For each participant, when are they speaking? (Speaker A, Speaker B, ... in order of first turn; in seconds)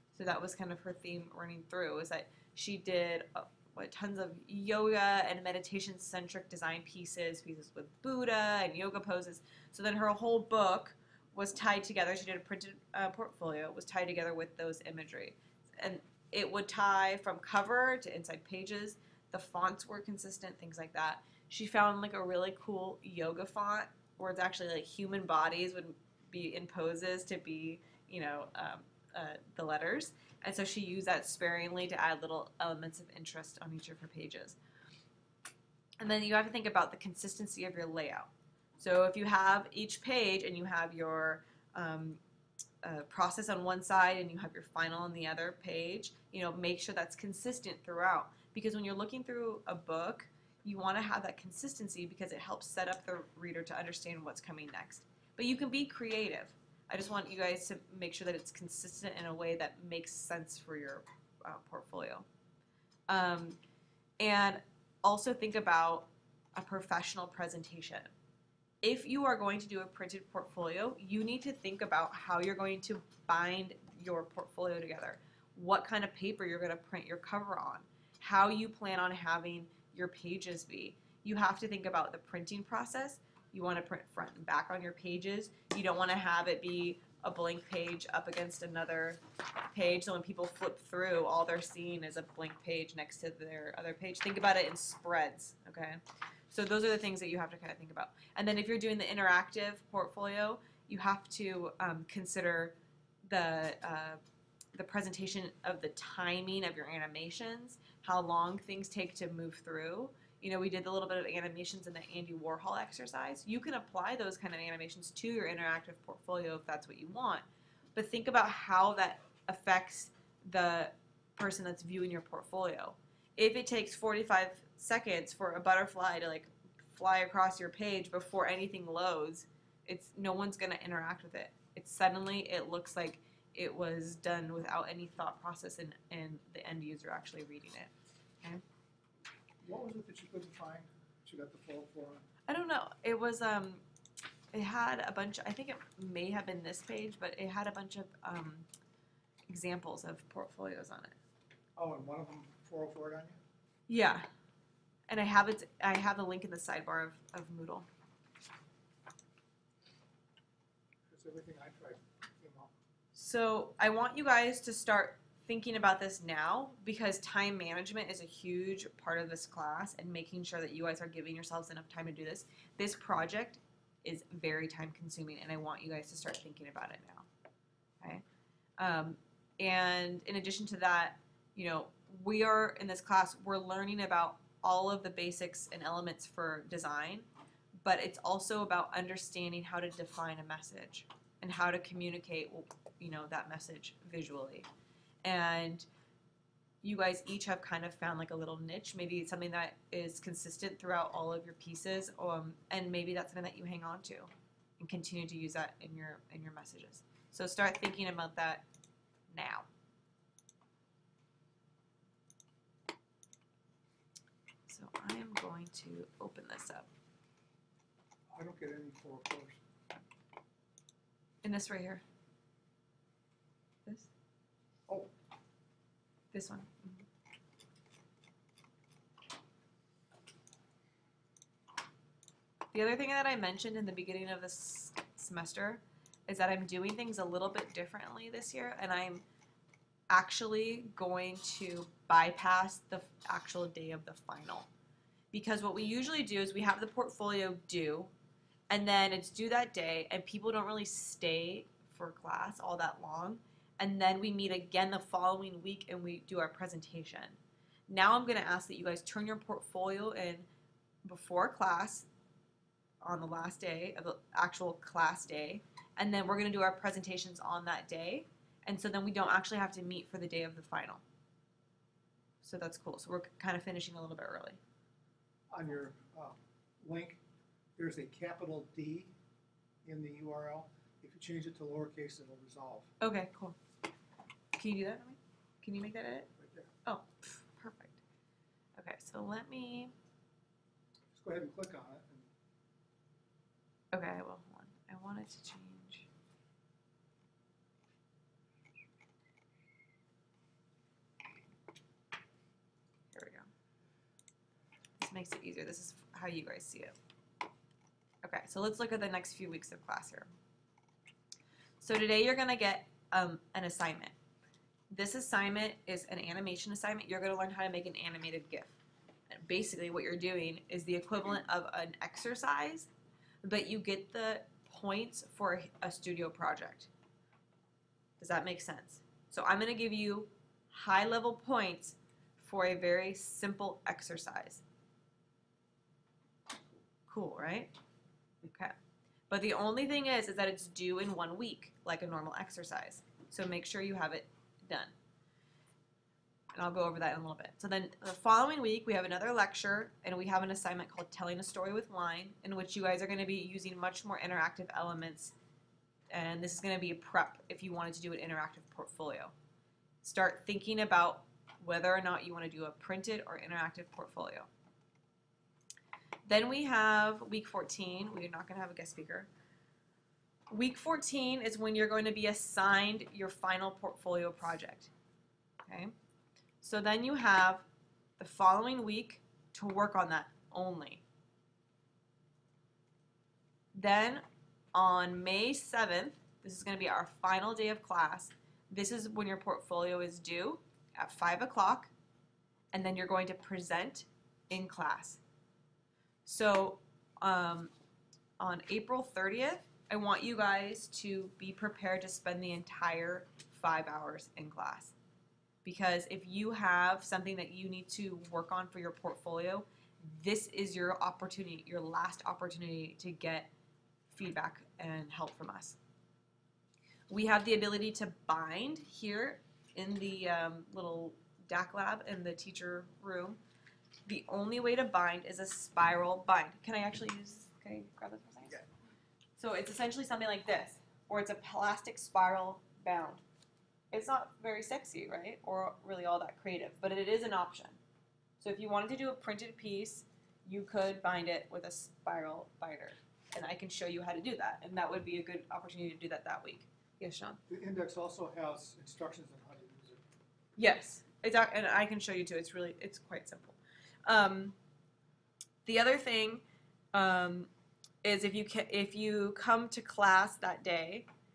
Speaker A: 0.1-34.6, 36.0-42.2, 42.8-62.2, 63.1-63.6, 64.2-68.1, 68.8-102.7, 103.2-104.2, 104.7-117.4, 118.0-137.9, 142.5-143.8, 144.5-148.7, 149.5-151.2, 153.9-154.3, 155.1-157.9, 163.2-177.3, 178.8-187.3, 187.8-194.7, 195.2-195.9, 196.8-208.6, 209.3-209.7, 214.7-216.9, 221.4-222.0, 226.3-227.1, 232.7-239.2, 240.1-244.7, 245.3-248.1, 248.7-260.5, 261.0-262.1, 263.0-271.0, 272.4-274.6, 283.0-283.6, 284.6-286.3, 286.9-288.0, 288.8-289.9, 293.9-296.1, 303.1-303.5, 305.0-306.9, 308.2-310.3, 311.8-314.1, 314.9-318.7, 319.3-322.9, 323.4-326.9, 328.2-334.6, 337.1-337.7, 338.4-338.7, 339.3-344.9, 346.5-355.4, 356.1-359.3, 360.0-364.5, 366.3-369.3, 370.5-374.9, 375.7-375.9, 376.6-377.6, 378.2-381.0, 383.7-391.9, 392.7-395.2, 396.3-397.7, 398.4-404.9, 405.6-413.5, 414.1-415.8, 417.1-423.4, 424.1-428.6, 429.4-433.2, 433.9-437.8, 438.4-447.4, 450.6-454.6, 455.7-456.4, 456.9-457.5, 458.0-461.1
Speaker B: 139.6-142.2, 151.8-153.4, 161.1-162.7, 218.3-219.6, 275.5-277.2, 277.8-279.1, 279.8-282.9, 286.4-286.7, 291.1-292.3, 447.5-450.0